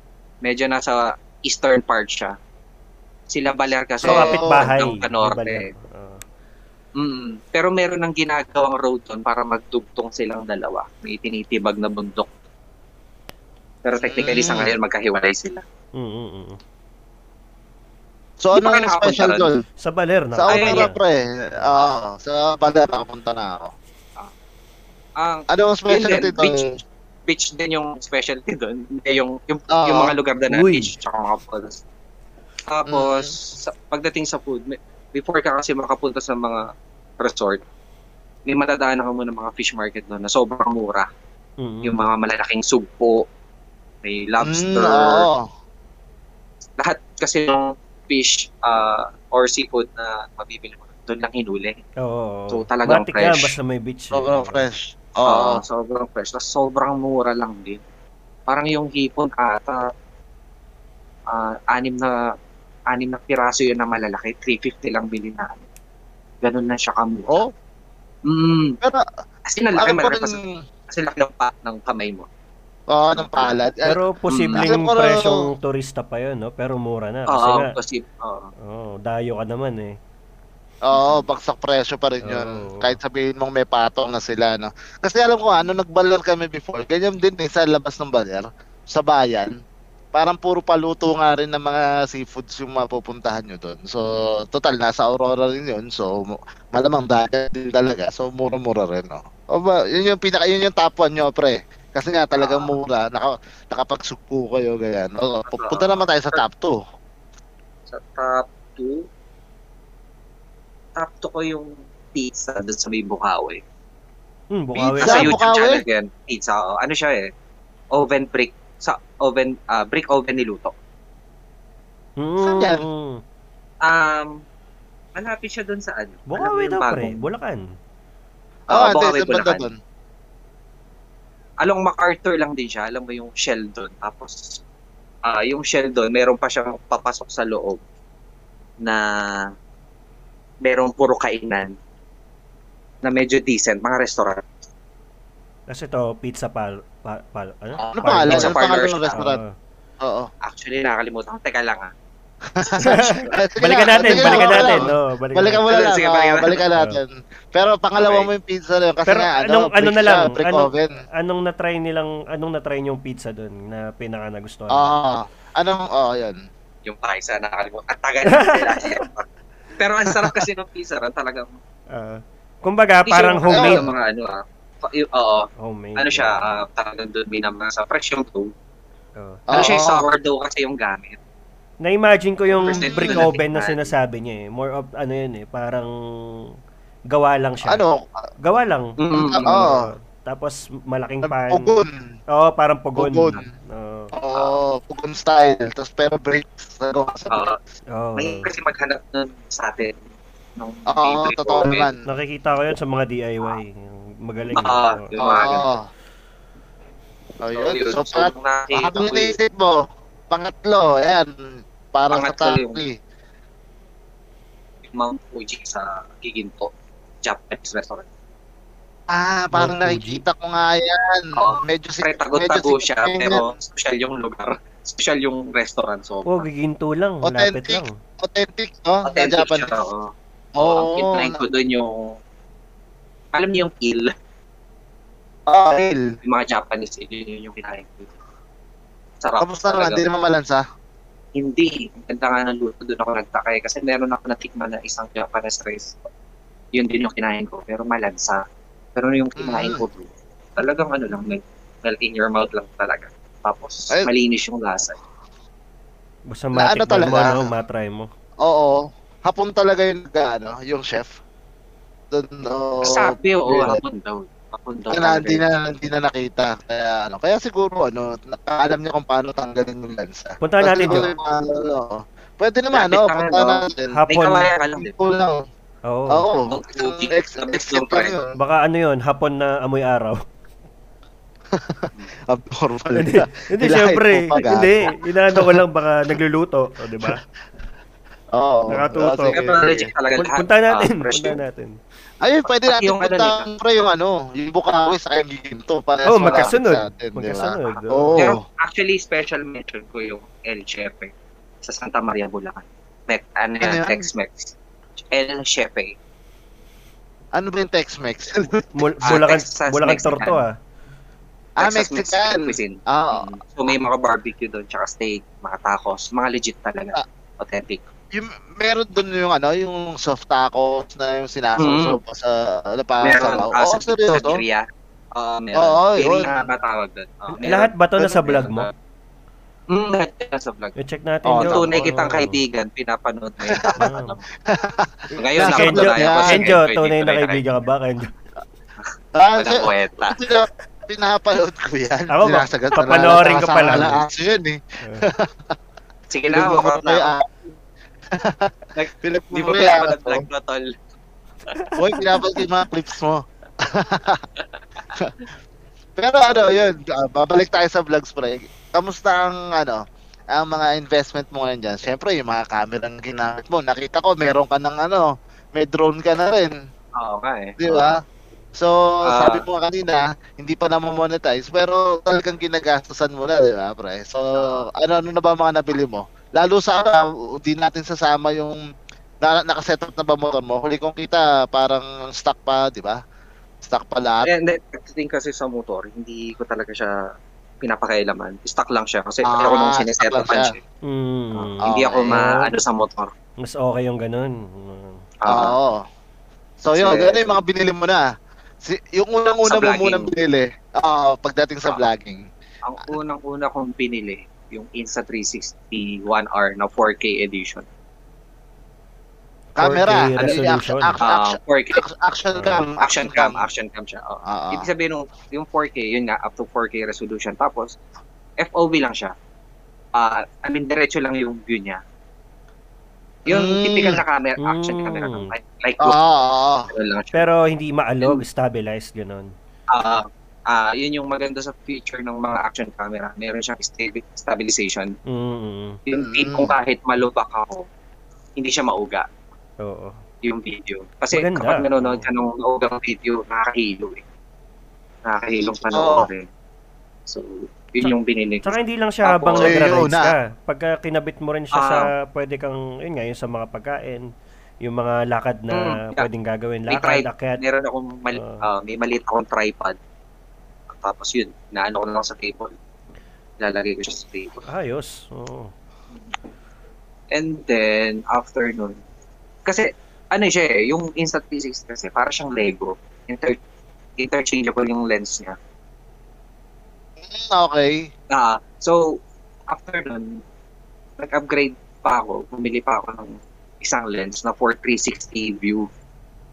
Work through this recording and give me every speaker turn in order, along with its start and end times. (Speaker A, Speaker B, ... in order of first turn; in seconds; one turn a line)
Speaker A: 0.4-2.3
Speaker A: 3.3-5.7
Speaker B: 4.0-4.6
Speaker C: 4.0-6.2
Speaker A: 7.0-12.3
Speaker A: 13.8-15.6
Speaker B: 14.0-14.7
Speaker C: 15.9-16.6
Speaker B: 18.4-19.6
Speaker A: 18.5-19.5
Speaker C: 19.8-20.9
Speaker B: 20.4-23.7
Speaker A: 20.5-20.9
Speaker A: 25.2-26.7
Speaker B: 25.5-26.7
Speaker A: 27.3-31.8
Speaker B: 29.7-30.1
Speaker C: 30.5-30.9
Speaker A: 32.7-36.6
Speaker B: 32.9-33.3
Speaker A: 37.2-37.6
Speaker A: 38.5-41.1
Speaker C: 41.6-42.0
Speaker A: 41.8-43.2
Speaker A: 44.0-45.3
Speaker B: 44.4-45.5
Speaker A: 46.8-51.8
Speaker C: 52.0-54.6
Speaker A: 52.5-53.5
Speaker B: 54.1-55.6
Speaker A: 55.2-57.8
Speaker A: 58.5-59.9
Speaker A: 61.3-62.2
Speaker A: 62.9-65.6
Speaker A: 66.4-67.3
Speaker A: 68.2-68.8
Speaker A: 69.5-70.4
Speaker B: 69.7-70.6
Speaker A: 70.9-72.3
Speaker B: 72.9-74.0
Speaker A: 73.1-73.5
Speaker C: 73.8-77.7
Speaker A: 74.3-74.7
Speaker B: 74.5-75.4
Speaker A: 77.3-78.5
Speaker C: 78.6-80.0
Speaker B: 80.9-89.5
Speaker A: 80.9-81.2
Speaker C: 82.2-83.0
Speaker B: 90.1-106.8
Speaker A: 102.4-102.7
Speaker A: 105.5-106.4
Speaker A: 107.9-109.0
Speaker A: 111.0-113.6
Speaker C: 114.5-115.4
Speaker B: 114.8-115.8
Speaker A: 115.0-117.3
Speaker A: 117.9-120.7
Speaker C: 122.2-123.2
Speaker B: 122.4-122.8
Speaker A: 123.8-124.4
Speaker A: 125.1-127.2
Speaker C: 126.3-127.6
Speaker B: 128.7-129.8
Speaker A: 128.7-129.6
Speaker A: 131.6-134.6
Speaker A: 135.2-137.8
Speaker A: 138.8-139.5
Speaker A: 140.6-141.7
Speaker A: 143.0-144.4
Speaker C: 145.7-148.6
Speaker B: 147.8-149.4
Speaker A: 148.2-149.2
Speaker C: 149.1-149.5
Speaker B: 150.0-150.3
Speaker A: 150.4-151.9
Speaker B: 152.6-161.0
Speaker C: 152.8-155.7
Speaker A: 153.9-154.8
Speaker A: 155.7-156.6
Speaker A: 157.9-158.3
Speaker C: 159.1-164.9
Speaker B: 164.7-166.4
Speaker A: 166.8-169.3
Speaker C: 168.2-169.0
Speaker A: 169.8-171.5
Speaker C: 171.9-173.8
Speaker A: 173.1-178.5
Speaker B: 173.5-173.9
Speaker C: 175.6-176.6
Speaker C: 179.2-179.5
Speaker B: 179.5-180.1
Speaker A: 179.5-181.2
Speaker C: 181.8-186.4
Speaker B: 182.6-183.3
Speaker A: 182.6-183.9
Speaker C: 187.1-187.8
Speaker B: 187.7-188.2
Speaker C: 188.4-191.7
Speaker A: 189.0-189.6
Speaker B: 189.1-189.9
Speaker B: 191.2-192.1
Speaker C: 192.3-194.1
Speaker B: 192.9-193.4
Speaker B: 194.1-197.4
Speaker A: 197.3-197.6
Speaker C: 197.9-198.5
Speaker A: 198.2-200.0
Speaker A: 200.6-201.9
Speaker B: 200.9-202.0
Speaker C: 202.1-205.2
Speaker A: 204.5-205.7
Speaker B: 205.2-205.8
Speaker B: 207.4-211.3
Speaker A: 207.5-209.3
Speaker B: 211.9-212.9
Speaker A: 212.1-212.8
Speaker A: 214.8-216.7
Speaker A: 217.2-218.1
Speaker B: 219.1-223.4
Speaker C: 219.5-220.2
Speaker A: 221.4-226.4
Speaker C: 226.2-227.9
Speaker B: 227.2-229.7
Speaker A: 229.0-232.1
Speaker B: 230.6-231.4
Speaker A: 233.3-234.1
Speaker B: 235.5-236.1
Speaker A: 236.2-238.1
Speaker A: 239.2-240.0
Speaker B: 239.4-240.6
Speaker A: 241.3-245.9
Speaker A: 246.7-248.4
Speaker A: 248.9-255.0
Speaker B: 249.4-249.8
Speaker C: 256.3-258.1
Speaker B: 256.5-257.5
Speaker B: 258.4-261.1
Speaker B: 262.1-263.8
Speaker A: 262.8-265.4
Speaker B: 264.9-274.0
Speaker C: 270.4-271.1
Speaker A: 272.7-274.9
Speaker C: 273.9-274.5
Speaker B: 274.8-275.4
Speaker C: 275.9-276.3
Speaker B: 276.1-278.3
Speaker A: 276.5-278.1
Speaker C: 278.4-280.2
Speaker B: 281.5-285.6
Speaker C: 283.0-287.2
Speaker B: 288.3-289.9
Speaker C: 288.7-289.4
Speaker A: 289.3-291.4
Speaker C: 290.1-291.7
Speaker B: 292.2-298.4
Speaker A: 292.6-293.5
Speaker C: 296.1-298.2
Speaker A: 298.2-301.1
Speaker A: 301.6-304.5
Speaker B: 303.6-304.1
Speaker A: 305.1-305.9
Speaker B: 307.3-309.2
Speaker C: 308.8-310.5
Speaker A: 309.1-310.4
Speaker B: 311.6-313.3
Speaker A: 311.6-317.8
Speaker B: 318.1-324.4
Speaker A: 321.6-322.0
Speaker A: 323.0-328.7
Speaker B: 325.6-326.4
Speaker C: 327.4-328.7
Speaker B: 328.0-328.3
Speaker A: 329.7-330.8
Speaker C: 330.8-332.4
Speaker B: 331.2-331.9
Speaker A: 331.4-334.3
Speaker B: 333.4-333.9
Speaker C: 333.8-334.1
Speaker B: 334.5-336.5
Speaker A: 335.2-337.4
Speaker C: 335.4-338.1
Speaker A: 338.9-340.2
Speaker B: 339.1-345.3
Speaker C: 342.1-344.0
Speaker A: 346.1-347.1
Speaker B: 346.3-347.4
Speaker B: 348.1-350.2
Speaker A: 348.8-350.7
Speaker C: 351.6-352.4
Speaker B: 351.8-354.2
Speaker B: 356.0-359.8
Speaker B: 360.3-366.5
Speaker A: 367.0-367.9
Speaker B: 367.6-368.0
Speaker B: 368.6-378.6
Speaker A: 369.1-369.4
Speaker A: 374.4-374.6
Speaker B: 379.2-383.0
Speaker B: 383.6-384.3
Speaker A: 384.2-387.0
Speaker A: 387.6-390.6
Speaker B: 389.2-390.5
Speaker C: 390.9-392.4
Speaker A: 391.3-393.1
Speaker B: 391.6-392.2
Speaker C: 393.4-395.0
Speaker A: 395.2-395.6
Speaker B: 395.3-395.8
Speaker B: 396.6-398.0
Speaker A: 396.7-397.4
Speaker B: 398.6-402.3
Speaker A: 399.5-400.1
Speaker A: 402.6-407.6
Speaker B: 409.6-413.4
Speaker C: 409.6-411.0
Speaker A: 410.2-410.4
Speaker A: 411.0-411.8
Speaker C: 412.3-412.6
Speaker A: 412.8-417.8
Speaker B: 414.2-414.7
Speaker A: 418.4-419.1
Speaker A: 419.9-421.8
Speaker B: 423.3-424.0
Speaker A: 423.3-426.0
Speaker C: 424.4-425.3
Speaker B: 425.8-426.7
Speaker A: 426.7-427.3
Speaker C: 427.1-429.3
Speaker A: 429.7-434.9
Speaker C: 435.1-435.8
Speaker A: 435.9-437.6
Speaker B: 435.9-436.5
Speaker A: 438.4-439.1
Speaker C: 439.6-439.9
Speaker A: 440.2-444.0
Speaker C: 441.1-442.1
Speaker A: 445.0-446.2
Speaker B: 445.5-446.1
Speaker A: 447.1-449.6
Speaker C: 448.4-454.1
Speaker B: 449.4-450.1
Speaker A: 451.6-451.9
Speaker C: 454.6-457.4
Speaker A: 455.5-456.1
Speaker A: 456.7-459.8
Speaker C: 458.1-458.4
Speaker A: 460.7-462.5
Speaker A: 463.4-464.4
Speaker C: 464.4-465.5
Speaker A: 467.1-468.8
Speaker A: 469.4-473.4
Speaker A: 474.0-475.4
Speaker B: 477.0-477.9
Speaker A: 478.1-480.2
Speaker A: 481.0-485.7